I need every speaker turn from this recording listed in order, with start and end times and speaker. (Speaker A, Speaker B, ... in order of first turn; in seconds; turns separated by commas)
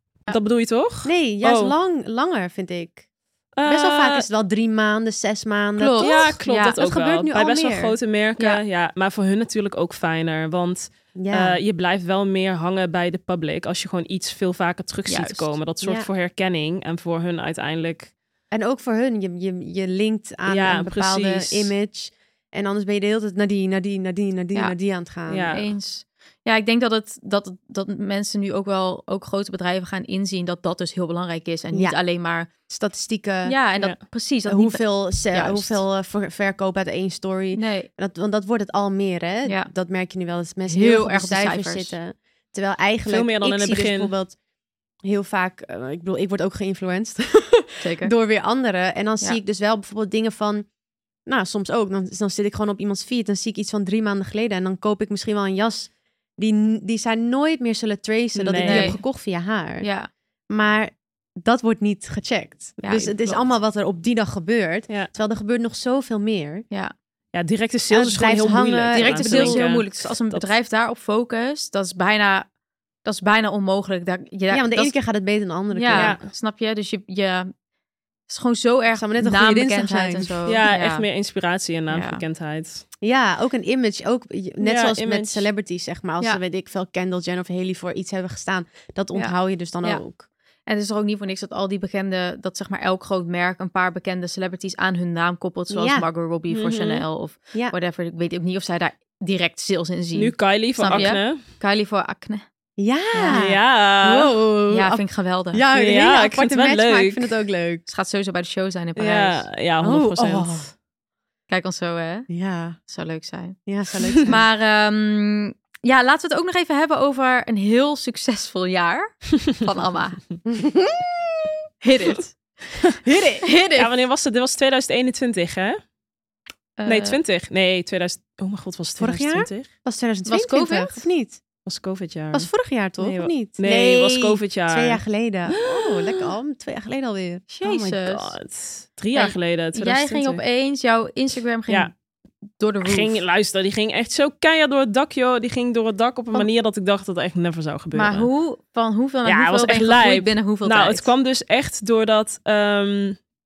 Speaker A: 0.3-1.7, Speaker B: 1.1-3.0, Speaker A: 3.6-4.2, Speaker B: 3.7-8.0, Speaker C: 5.8-6.8, Speaker A: 6.0-18.1, Speaker B: 11.2-11.6, Speaker C: 15.1-15.5, Speaker B: 15.8-16.1, Speaker B: 18.5-25.5, Speaker A: 20.4-21.7, Speaker A: 25.3-25.7, Speaker C: 25.5-32.5, Speaker B: 32.7-33.6, Speaker C: 33.5-35.8, Speaker B: 34.5-44.4, Speaker C: 37.5-37.9, Speaker C: 39.5-39.7, Speaker C: 40.7-42.0, Speaker A: 43.1-44.1, Speaker B: 45.0-50.7, Speaker C: 47.8-48.1, Speaker B: 51.3-59.9, Speaker A: 58.4-59.0, Speaker C: 58.5-59.0, Speaker C: 59.8-60.1, Speaker B: 60.5-66.7, Speaker C: 62.8-63.2, Speaker A: 67.3-70.5, Speaker B: 67.9-69.6, Speaker C: 68.9-72.5, Speaker C: 73.0-74.9, Speaker B: 74.5-76.2, Speaker C: 75.7-77.5, Speaker A: 75.9-76.2, Speaker C: 78.3-81.0, Speaker B: 79.0-80.4, Speaker A: 80.5-82.8, Speaker C: 81.9-82.2, Speaker B: 83.0-90.2, Speaker A: 84.6-85.5, Speaker C: 89.1-90.0, Speaker C: 90.7-102.5, Speaker B: 95.7-96.1, Speaker A: 96.5-97.0, Speaker A: 100.1-101.4, Speaker B: 102.8-107.8, Speaker C: 103.1-103.4, Speaker A: 103.3-104.3, Speaker C: 104.7-105.6, Speaker A: 105.7-107.3, Speaker C: 107.9-109.5, Speaker A: 109.0-110.7, Speaker B: 109.8-110.7, Speaker C: 111.5-112.3, Speaker B: 112.3-112.8, Speaker C: 112.8-113.6, Speaker B: 113.7-114.4, Speaker C: 114.2-120.2, Speaker B: 120.5-121.5, Speaker C: 121.8-122.4, Speaker B: 123.1-123.5, Speaker C: 123.4-123.9, Speaker A: 123.8-125.8, Speaker C: 126.8-127.2, Speaker A: 126.9-129.7, Speaker B: 129.0-131.4, Speaker C: 130.3-131.0, Speaker A: 131.6-136.3, Speaker B: 132.3-137.5, Speaker C: 137.5-138.3, Speaker A: 137.6-140.4, Speaker C: 139.1-141.9, Speaker C: 142.6-143.2, Speaker A: 142.8-148.3, Speaker C: 147.9-151.1, Speaker A: 149.3-153.2